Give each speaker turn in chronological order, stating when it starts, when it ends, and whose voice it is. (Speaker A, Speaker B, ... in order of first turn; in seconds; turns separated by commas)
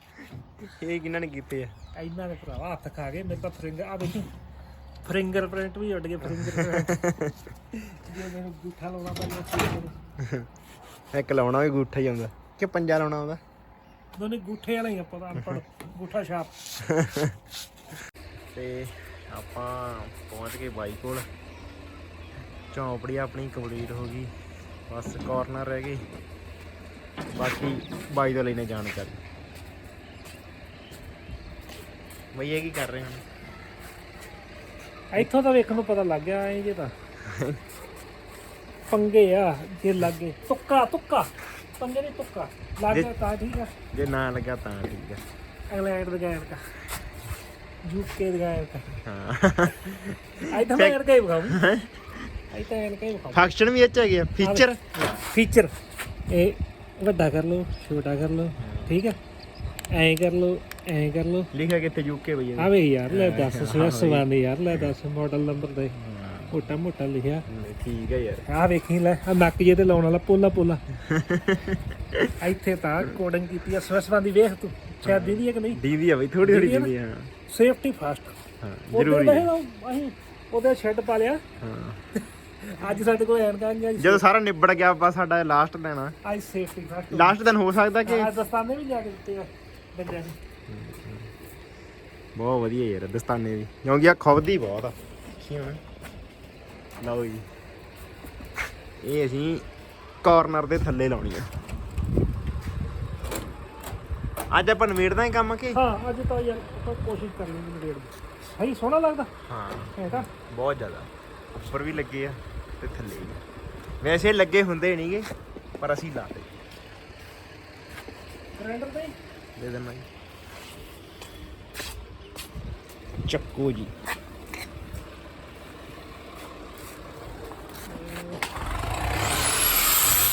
Speaker A: 0.6-1.7, Speaker B: 1.9-4.3, Speaker B: 5.0-7.1, Speaker A: 6.3-7.4, Speaker B: 7.8-9.9, Speaker A: 10.2-10.5, Speaker A: 11.1-13.4, Speaker B: 14.1-16.5, Speaker A: 16.8-17.4, Speaker A: 18.5-21.2, Speaker A: 22.7-24.3, Speaker A: 24.9-26.0, Speaker A: 27.3-29.2, Speaker A: 32.3-33.2, Speaker B: 35.1-36.9, Speaker A: 37.2-37.6, Speaker B: 38.9-43.7, Speaker A: 43.9-45.2, Speaker B: 45.7-46.6, Speaker B: 47.8-48.9, Speaker A: 49.0-52.0, Speaker B: 50.4-51.6, Speaker B: 52.5-53.5, Speaker A: 53.3-54.7, Speaker B: 54.4-55.7, Speaker B: 56.3-59.2, Speaker A: 58.6-59.0, Speaker B: 59.9-61.5, Speaker A: 61.5-64.9, Speaker B: 62.6-66.0, Speaker A: 66.0-66.5, Speaker B: 66.5-67.5, Speaker A: 67.5-68.5, Speaker B: 68.5-70.8, Speaker A: 71.0-72.3, Speaker B: 72.4-75.8, Speaker A: 75.0-77.3, Speaker B: 76.4-76.9, Speaker B: 77.5-78.3, Speaker A: 78.6-79.5, Speaker B: 78.9-81.4, Speaker A: 81.6-82.0, Speaker B: 82.2-84.2, Speaker A: 84.0-86.1, Speaker B: 86.2-87.4, Speaker A: 87.1-88.3, Speaker B: 88.0-90.4, Speaker A: 90.7-91.3, Speaker A: 92.3-95.8, Speaker A: 97.0-97.5, Speaker A: 99.0-99.7, Speaker A: 100.2-101.5, Speaker A: 104.5-105.8, Speaker B: 105.7-109.3, Speaker A: 109.4-113.4, Speaker B: 110.0-110.3, Speaker A: 114.0-115.3, Speaker A: 115.8-116.5, Speaker B: 118.5-119.2, Speaker A: 119.5-120.0, Speaker A: 123.2-123.9, Speaker B: 127.8-128.4